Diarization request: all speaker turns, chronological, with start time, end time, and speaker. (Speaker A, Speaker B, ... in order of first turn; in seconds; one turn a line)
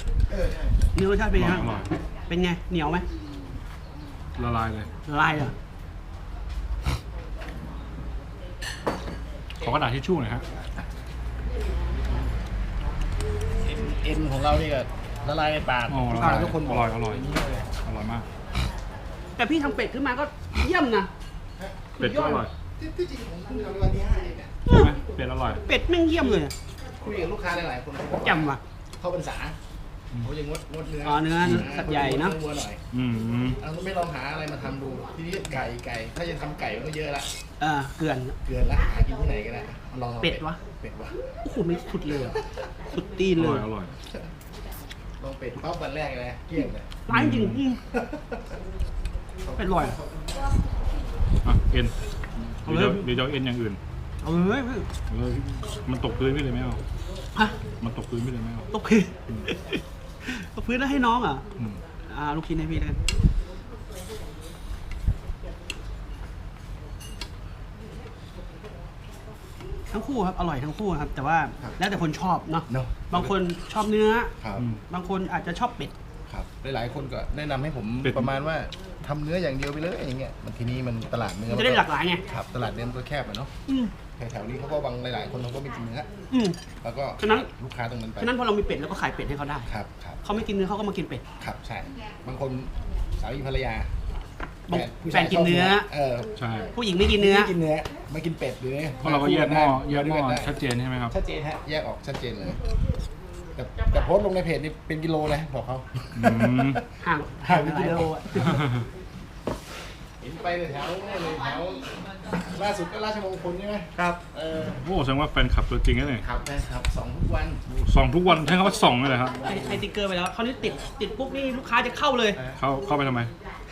Speaker A: 0.3-0.9
Speaker B: 0.9-3.0
Speaker C: 1.3-1.9
Speaker C: 4.3-4.9
Speaker B: 5.1-5.5
Speaker C: 9.6-10.4
Speaker A: 13.6-17.7
Speaker C: 15.9-18.3
Speaker B: 16.1-16.6
Speaker B: 19.4-21.1
Speaker A: 21.6-21.8
Speaker B: 22.0-22.4
Speaker C: 22.0-22.5
Speaker A: 22.8-24.6
Speaker B: 24.7-25.0
Speaker C: 24.7-25.6
Speaker B: 25.6-26.5
Speaker A: 26.9-29.6
Speaker B: 28.2-28.6
Speaker A: 30.2-32.8
Speaker B: 31.0-32.4
Speaker C: 31.4-31.7
Speaker C: 32.9-33.6
Speaker A: 33.6-37.3
Speaker B: 37.6-38.4
Speaker A: 38.4-41.2
Speaker B: 40.2-40.6
Speaker B: 41.4-43.7
Speaker C: 43.3-43.9
Speaker A: 45.2-46.9
Speaker B: 47.0-47.8
Speaker C: 47.1-47.6
Speaker A: 47.9-48.5
Speaker A: 49.4-50.6
Speaker B: 49.6-50.0
Speaker C: 51.4-53.8
Speaker B: 52.6-53.1
Speaker B: 54.2-54.9
Speaker C: 55.1-56.8
Speaker C: 57.8-58.7
Speaker B: 58.7-61.4
Speaker B: 62.0-63.0
Speaker B: 69.9-74.3
Speaker A: 72.7-73.3
Speaker A: 74.4-74.6
Speaker C: 74.5-74.8
Speaker B: 74.9-75.9
Speaker A: 76.3-83.5
Speaker B: 81.5-82.2
Speaker B: 83.7-83.9
Speaker A: 84.2-86.1
Speaker B: 86.3-86.6
Speaker A: 86.8-88.3
Speaker B: 87.2-87.5
Speaker B: 88.2-89.7
Speaker A: 89.7-90.2
Speaker B: 90.2-91.2
Speaker A: 91.4-93.9
Speaker B: 94.7-95.9
Speaker A: 94.7-96.4
Speaker C: 96.4-96.7
Speaker B: 96.7-97.5
Speaker A: 97.1-100.5
Speaker C: 99.0-101.2
Speaker A: 101.1-102.6
Speaker A: 103.5-106.8
Speaker C: 106.1-106.8
Speaker B: 107.0-108.6
Speaker A: 107.4-108.6
Speaker A: 110.2-114.8
Speaker C: 114.8-116.2
Speaker A: 116.2-117.6
Speaker C: 117.7-119.4
Speaker B: 119.4-122.4
Speaker C: 122.5-123.3